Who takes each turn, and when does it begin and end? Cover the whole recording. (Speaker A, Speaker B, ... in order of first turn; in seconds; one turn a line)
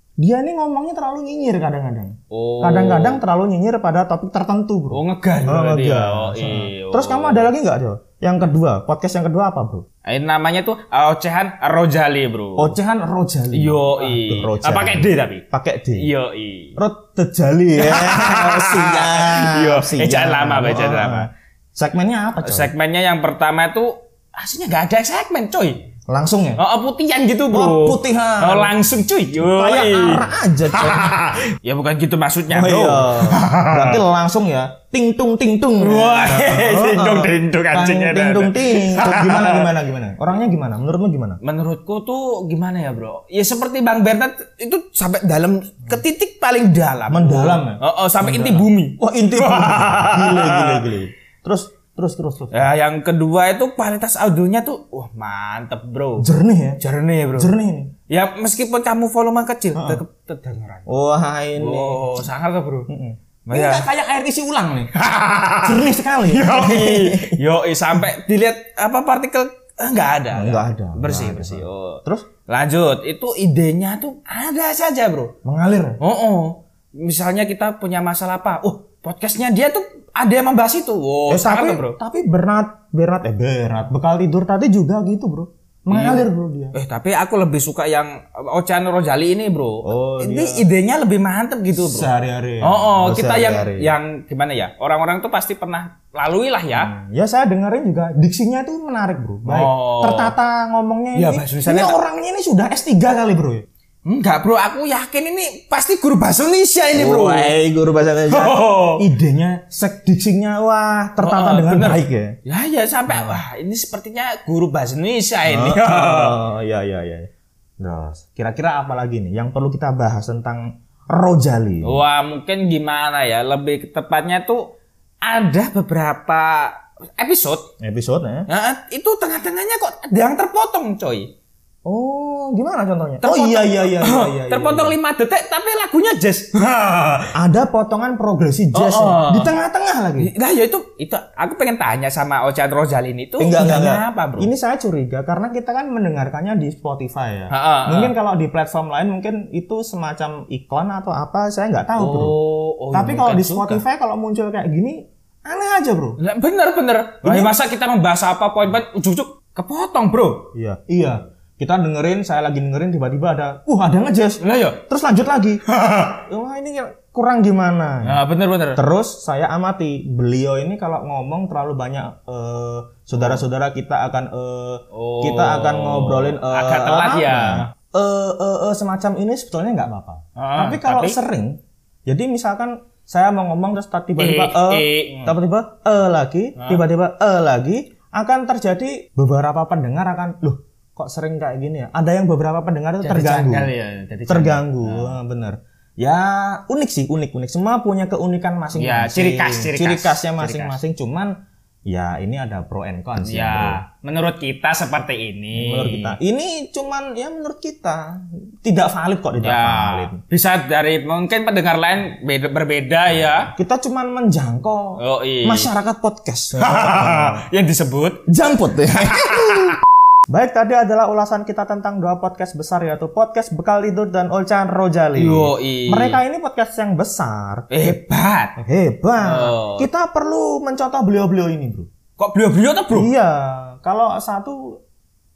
Speaker A: 0.2-9.9
Speaker B: 2.3-3.2
Speaker B: 4.9-7.5
Speaker B: 10.1-12.8
Speaker A: 12.6-16.1
Speaker B: 13.5-15.4
Speaker B: 15.9-16.8
Speaker A: 16.8-22.7
Speaker B: 17.8-21.3
Speaker B: 22.4-25.9
Speaker A: 26.1-26.6
Speaker B: 26.6-34.0
Speaker A: 27.5-28.7
Speaker A: 29.4-31.2
Speaker A: 32.5-41.4
Speaker B: 35.8-39.7
Speaker B: 41.4-50.9
Speaker A: 47.1-52.7
Speaker B: 52.5-56.3
Speaker A: 56.2-56.8
Speaker B: 56.8-57.5
Speaker A: 57.3-57.9
Speaker B: 58.1-60.9
Speaker A: 59.7-60.0
Speaker A: 60.9-62.2
Speaker B: 61.6-62.9
Speaker A: 62.9-64.9
Speaker B: 63.5-63.9
Speaker B: 65.0-75.3
Speaker A: 65.6-68.0
Speaker A: 70.3-72.3
Speaker A: 75.4-76.0
Speaker B: 76.0-82.0
Speaker A: 81.3-86.8
Speaker B: 85.9-92.1
Speaker A: 89.8-90.7
Speaker A: 91.8-93.9
Speaker B: 92.6-96.9
Speaker A: 96.7-103.7
Speaker B: 99.5-100.3
Speaker B: 101.2-102.0
Speaker B: 104.1-107.5
Speaker A: 107.0-112.4
Speaker B: 108.3-109.1
Speaker B: 111.2-116.4
Speaker A: 113.1-113.4
Speaker A: 115.5-117.3
Speaker A: 117.8-122.0
Speaker B: 121.8-127.7
Speaker A: 127.8-128.5
Speaker B: 128.5-131.3
Speaker A: 131.8-135.0
Speaker B: 133.2-137.3
Speaker A: 137.3-140.3
Speaker B: 138.7-139.5
Speaker B: 140.2-144.5
Speaker A: 143.4-152.4
Speaker B: 147.5-148.1
Speaker B: 152.0-153.8
Speaker A: 152.9-156.2
Speaker B: 156.2-160.5
Speaker A: 157.2-157.6
Speaker A: 160.5-168.2
Speaker B: 164.4-164.8
Speaker B: 165.7-166.2
Speaker B: 168.0-168.8
Speaker A: 168.8-193.7
Speaker B: 173.1-173.4
Speaker B: 174.9-177.7
Speaker B: 180.4-181.2
Speaker B: 184.2-185.4
Speaker B: 186.6-186.8
Speaker B: 193.0-195.2
Speaker A: 194.3-203.8
Speaker B: 198.8-200.8
Speaker B: 203.2-206.2
Speaker A: 205.5-210.2
Speaker B: 209.4-213.5
Speaker A: 213.5-217.4
Speaker B: 215.0-215.7
Speaker B: 216.6-218.2
Speaker A: 218.3-228.0
Speaker B: 219.1-219.6
Speaker B: 225.2-226.2
Speaker B: 227.7-228.6
Speaker A: 228.6-231.9
Speaker B: 229.2-229.9
Speaker B: 232.2-233.1
Speaker A: 232.9-234.8